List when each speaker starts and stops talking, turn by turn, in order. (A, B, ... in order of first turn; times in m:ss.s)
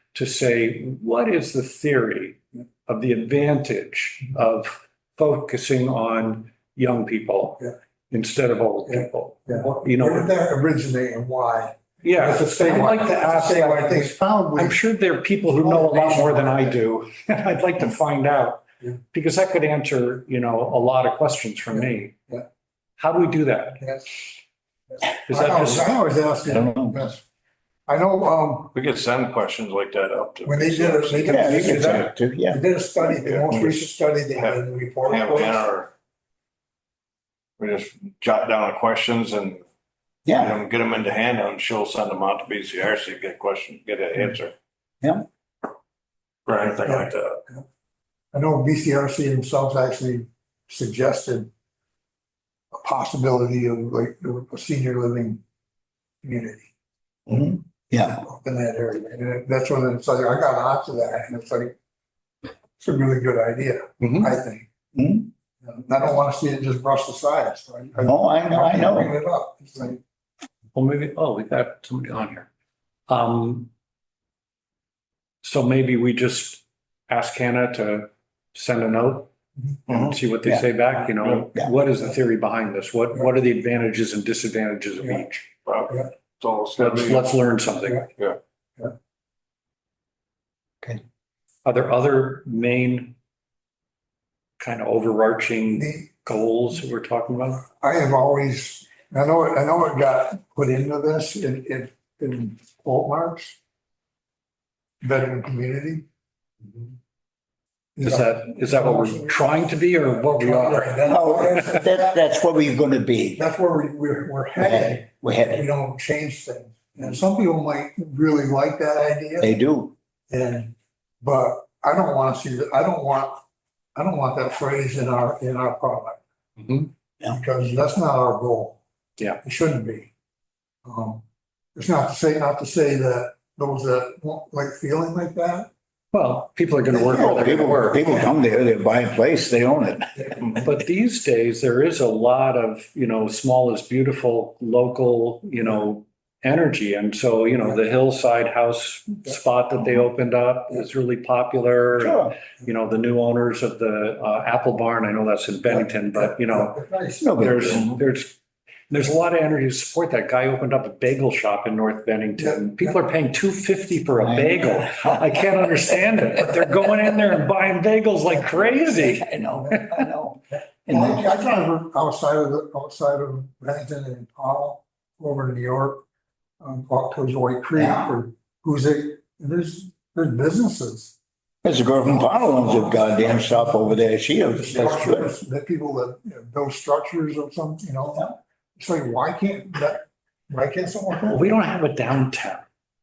0:00.1-0:10.3 A
0:08.9-0:14.8 B
0:12.0-0:22.2 A
0:15.5-0:16.8 B
0:21.7-0:22.5 B
0:23.0-0:23.8 A
0:23.8-0:24.2 B
0:25.3-0:25.9 A
0:25.3-0:27.2 B
0:26.5-0:27.0 C
0:27.9-0:28.8 B
0:28.7-0:31.9 D
0:30.4-0:35.7 B
0:31.3-0:32.6 C
0:31.3-0:32.1 A
0:33.0-0:35.9 D
0:37.6-0:39.6 D
0:40.3-0:40.6 C
0:40.3-0:44.5 D
0:46.5-0:47.4 D
0:46.8-0:47.6 B
0:48.3-0:51.5 B
0:52.7-0:55.4 B
0:56.2-0:56.7 B
0:57.3-0:58.2 C
0:58.0-1:01.7 B
1:02.8-1:04.7 B
1:04.0-1:04.3 A
1:05.0-1:05.3 C
1:05.6-1:10.0 B
1:08.0-1:09.1 C
1:10.8-1:12.5 A
1:13.1-1:13.7 A
1:15.4-1:19.3 A
1:19.9-1:20.2 D
1:19.9-1:25.5 A
1:25.7-1:27.3 D
1:26.8-1:28.1 A
1:31.6-1:33.2 A
1:34.6-1:37.6 A
1:35.8-1:36.1 B
1:37.7-1:43.6 B
1:45.0-1:46.1 B
1:48.0-1:49.6 B
1:48.0-1:51.0 A
1:50.3-1:52.2 B
1:51.1-1:53.4 C
1:53.4-1:59.5 B
1:54.6-1:55.7 C
1:59.4-1:59.9 C
2:00.3-2:03.4 B
2:04.0-2:06.2 B
2:06.6-2:06.9 A
2:07.2-2:08.8 B
2:09.4-2:10.1 B
2:10.8-2:11.2 B
2:11.8-2:15.7 B
2:16.1-2:18.3 A
2:16.9-2:17.4 B
2:17.0-2:20.3 C
2:20.5-2:36.8 A
2:32.0-2:32.4 C
2:36.2-2:37.3 B
2:37.2-2:38.0 C
2:37.4-2:38.4 A
2:38.9-2:49.3 A
2:42.4-2:43.0 B
2:44.2-2:46.0 C
2:48.3-2:48.9 B
2:48.9-2:51.2 C
2:50.9-2:56.0 B
2:56.6-3:01.2 B
2:57.8-2:58.1 C
3:01.6-3:05.3 C
3:02.1-3:03.8 B
3:04.5-3:11.5 B
3:11.3-3:12.7 A